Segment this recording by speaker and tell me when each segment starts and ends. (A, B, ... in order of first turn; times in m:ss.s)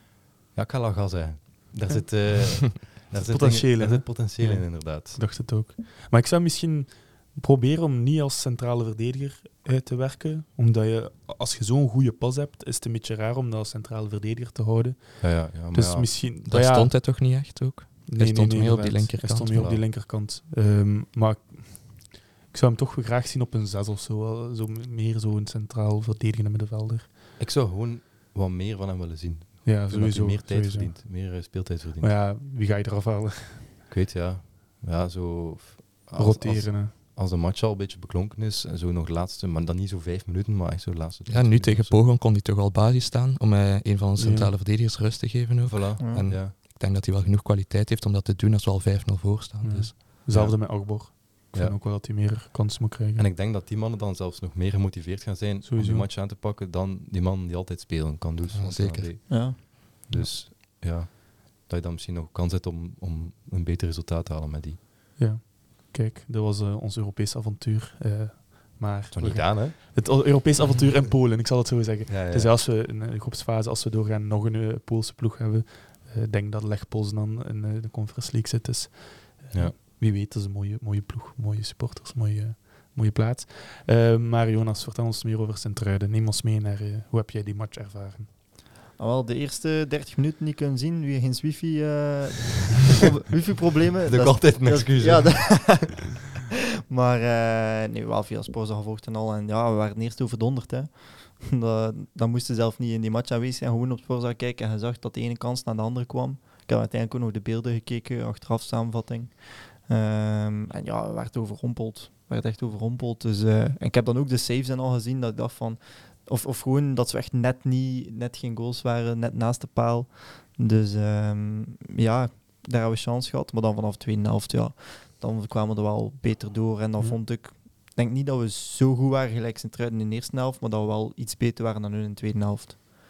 0:00.5-0:05.2 A
0:03.1-0:17.4 B
0:15.2-0:16.1 A
0:16.4-0:19.7 C
0:18.1-0:27.1 B
0:19.5-0:19.8 A
0:27.4-0:32.2 A
0:29.6-0:31.4 B
0:32.0-0:33.7 B
0:33.9-0:42.0 A
0:36.2-0:36.9 B
0:41.3-0:50.0 C
0:44.2-0:44.5 B
0:45.7-0:46.6 A
0:46.0-0:46.3 D
0:49.6-0:53.3 B
0:50.3-0:51.8 A
0:53.2-1:04.8 A
0:55.6-0:56.1 B
0:58.5-0:59.1 C
0:59.3-0:59.6 D
1:05.2-1:28.3 B
1:09.1-1:10.1 A
1:12.1-1:12.6 A
1:29.0-2:12.8 D
1:34.0-1:35.9 A